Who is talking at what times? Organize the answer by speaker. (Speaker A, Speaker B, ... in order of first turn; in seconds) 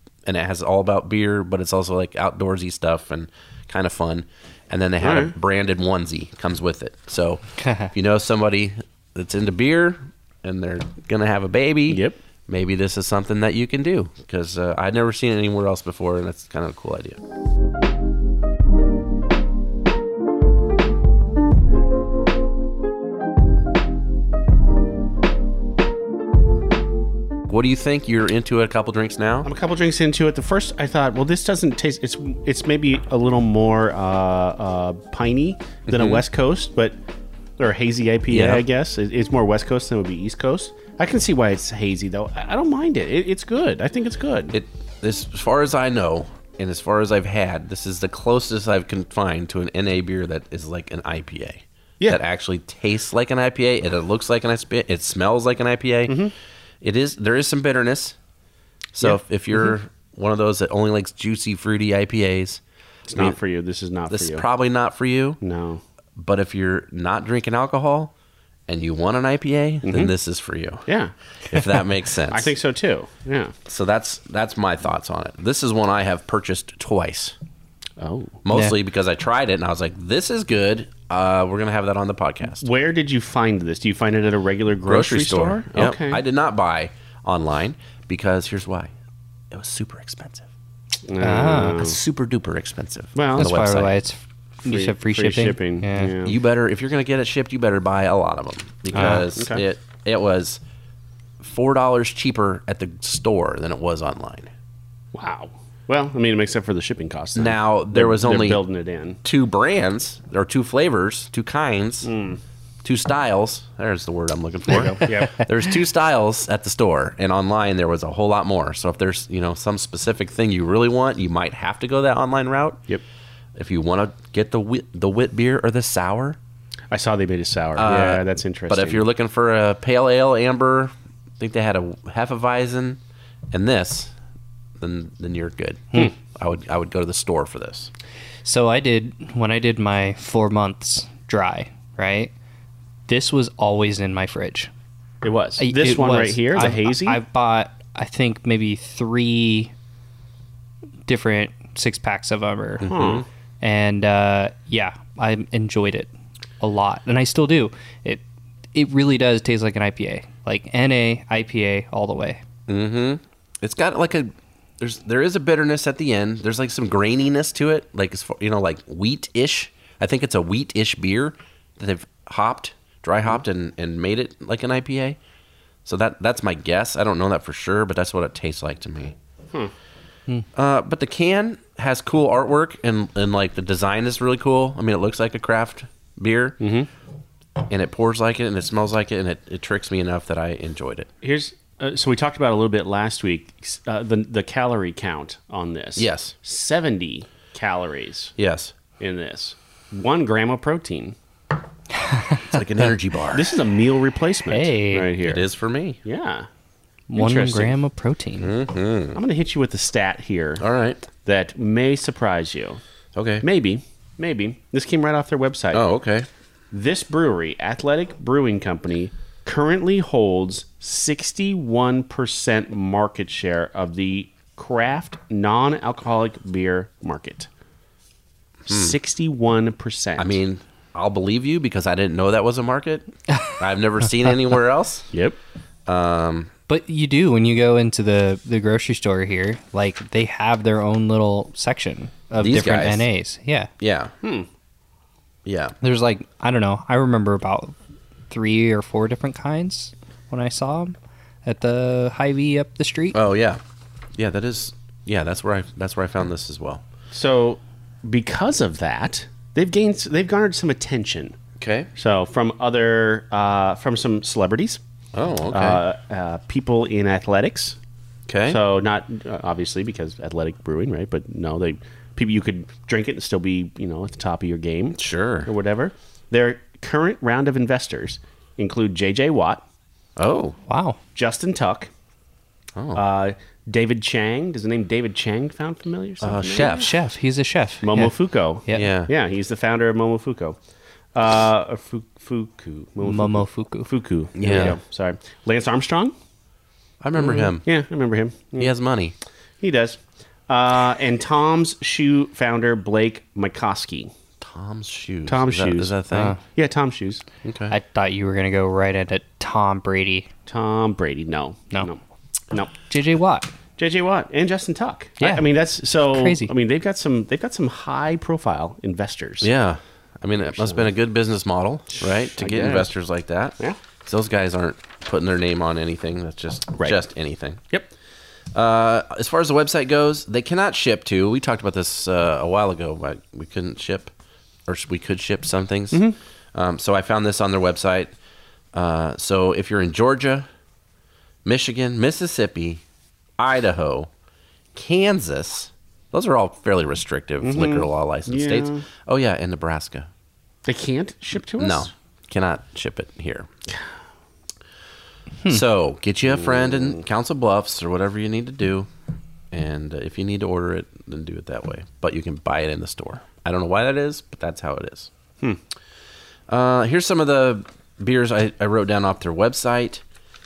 Speaker A: 0.2-17.2, 27.5-29.5, 35.9-36.2, 38.3-38.6, 44.5-56.3, 56.8-58.2, 58.9-62.6, 64.1-65.4, 66.2-68.1, 68.7-70.9, 71.5-72.5, 73.7-77.4, 78.4-82.7, 84.9-88.9, 89.5-90.5, 91.7-94.0, 96.2-100.6, 101.4-104.5, 107.4-108.6, 109.2-112.1, 112.8-122.9, 123.5-126.4, 127.8-133.0, 133.5-134.1, 134.8-137.9, 152.8-153.3, 162.7-175.2, 175.8-179.2, 180.6-186.6, 187.7-191.1, 196.0-196.3, 198.4-198.7, 202.4-203.5, 205.2-206.0, 208.4-209.2, 210.6-211.0, 213.1-213.4, 215.7-216.3, 228.7-229.0, 230.2-235.1, 235.9-236.5, 242.4-243.1, 243.8-244.1, 245.4-245.8, 253.1-253.6, 254.2-256.8, 261.6-261.9, 265.1-265.8, 268.3-268.6, 275.0-275.5, 280.2-280.6, 282.8-283.0, 286.2-286.9, 288.7-289.1, 294.4-294.8, 297.0-297.6, 298.6-299.1, 304.4-306.4, 307.4-307.8, 319.4-327.6, 328.5-334.1, 334.7-336.0, 336.5-338.1, 338.7-340.5, 341.4-342.8, 343.4-344.1, 344.8-350.1, 351.6-353.5, 355.5-358.9, 359.5-365.1, 366.5-370.0
Speaker B: 5.0-5.3, 11.9-12.2, 29.4-37.0, 37.6-44.6, 56.1-56.3, 59.0-59.7, 63.1-64.5, 65.4-65.8, 69.8-70.1, 70.9-71.6, 72.3-73.5, 78.0-78.4, 82.6-86.2, 91.0-92.0, 93.2-93.5, 94.7-96.4, 98.9-99.6, 105.1-109.2, 112.0-112.4, 114.7-115.4, 126.9-129.1, 145.2-147.2, 152.8-153.3, 186.6-186.9, 191.2-198.3, 199.0-201.2, 203.3-205.5, 206.0-206.5, 207.1-207.8, 209.2-210.6, 211.2-212.8, 213.4-215.8, 216.7-227.5, 228.7-230.4, 235.1-235.4, 244.2-244.5, 257.1-261.4, 262.0-264.8, 265.5-267.8, 268.5-279.6, 281.1-281.9, 282.9-286.8, 287.8-290.6, 291.1-296.1, 297.2-298.7, 299.6-304.1, 305.3-307.2, 310.5-312.0, 313.8-319.5, 320.4-320.9, 322.0-322.9, 326.8-327.0, 335.9-336.2, 347.4-348.9, 350.7-351.9, 356.4-357.0
Speaker C: 78.5-78.8, 91.2-91.8, 93.4-96.2, 98.9-99.3, 138.4-142.3, 143.1-144.7, 145.6-149.7, 151.1-152.9, 153.6-156.1, 156.6-158.2, 158.7-162.4, 204.5-205.1, 207.1-208.5, 236.7-243.7, 245.8-247.7, 248.3-253.2, 280.7-281.0, 286.6-288.1, 293.0-293.9, 306.1-306.4, 307.7-310.3, 312.8-313.5, 315.2-315.5, 316.0-316.5